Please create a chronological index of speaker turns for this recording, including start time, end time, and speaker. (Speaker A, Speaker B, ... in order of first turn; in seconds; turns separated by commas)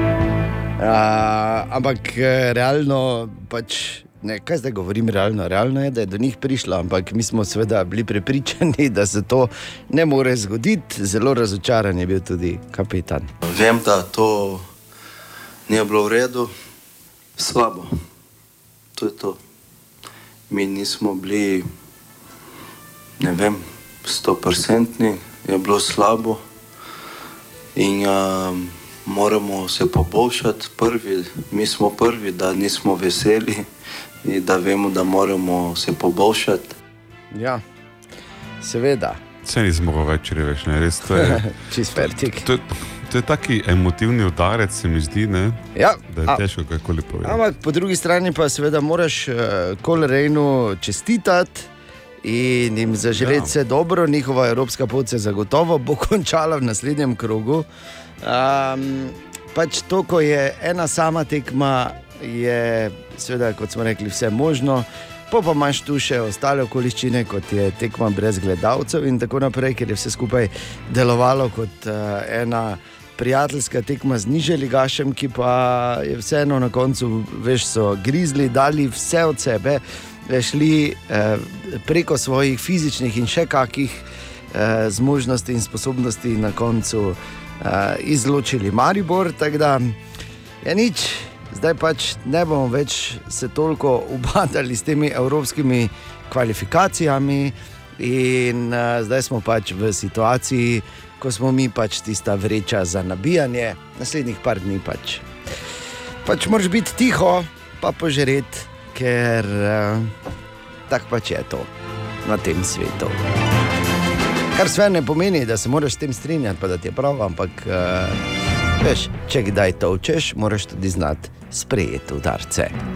Speaker A: 0.8-13.3, Speaker B: 13.4-14.6, Speaker B: 15.7-16.5, Speaker B: 17.4-17.9, Speaker B: 19.0-19.4, Speaker B: 20.5-21.7, Speaker B: 23.2-26.4, Speaker B: 27.7-33.6, Speaker B: 34.2-36.7, Speaker A: 37.3-37.6, Speaker A: 38.6-39.2, Speaker C: 39.4-47.4, Speaker A: 41.1-42.5, Speaker A: 45.7-46.4, Speaker A: 47.2-51.7, Speaker A: 52.2-57.7, Speaker C: 53.2-53.5, Speaker A: 58.2-90.0, Speaker A: 90.6-105.2, Speaker A: 106.2-110.1, Speaker A: 110.9-111.7, Speaker A: 112.2-113.2, Speaker A: 114.5-118.2, Speaker A: 118.8-122.7